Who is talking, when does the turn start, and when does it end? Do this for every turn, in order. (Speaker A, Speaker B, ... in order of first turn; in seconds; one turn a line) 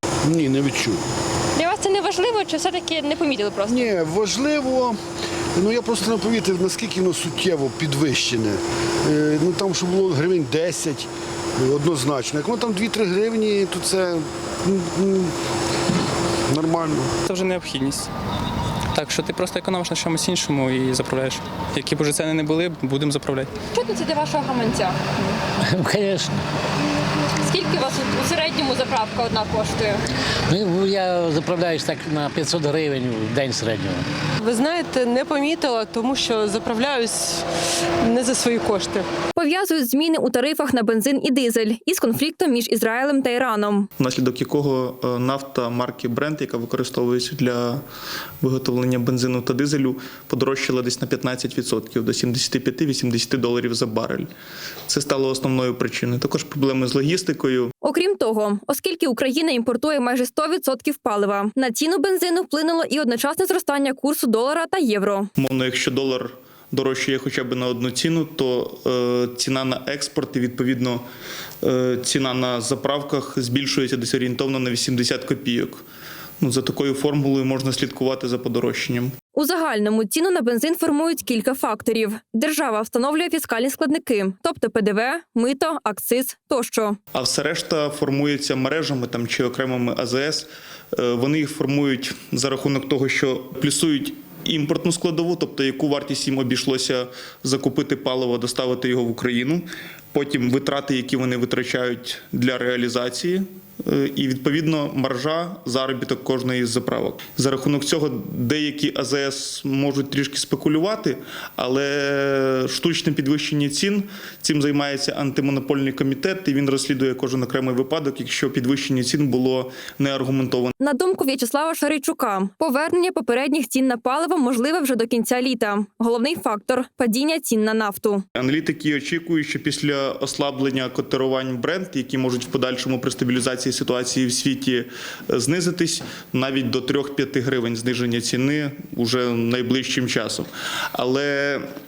Speaker A: 0.3-1.0
Speaker B: 1.6-3.9
Speaker A: 3.7-5.0
Speaker A: 5.5-15.3
Speaker A: 16.5-17.1
Speaker C: 17.3-18.1
Speaker C: 18.9-23.5
Speaker B: 23.7-25.1
Speaker D: 25.6-26.4
Speaker B: 27.4-30.0
Speaker D: 30.5-34.0
Speaker E: 34.4-37.4
Speaker E: 38.0-39.1
Speaker B: 39.3-43.9
Speaker F: 44.0-47.8
Speaker F: 48.4-54.3
Speaker F: 54.9-57.7
Speaker B: 57.8-65.3
Speaker F: 65.4-71.0
Speaker F: 71.6-75.8
Speaker F: 76.4-79.1
Speaker B: 79.3-87.0
Speaker F: 87.1-120.8
Speaker B: 120.8-128.2
Speaker F: 128.4-141.7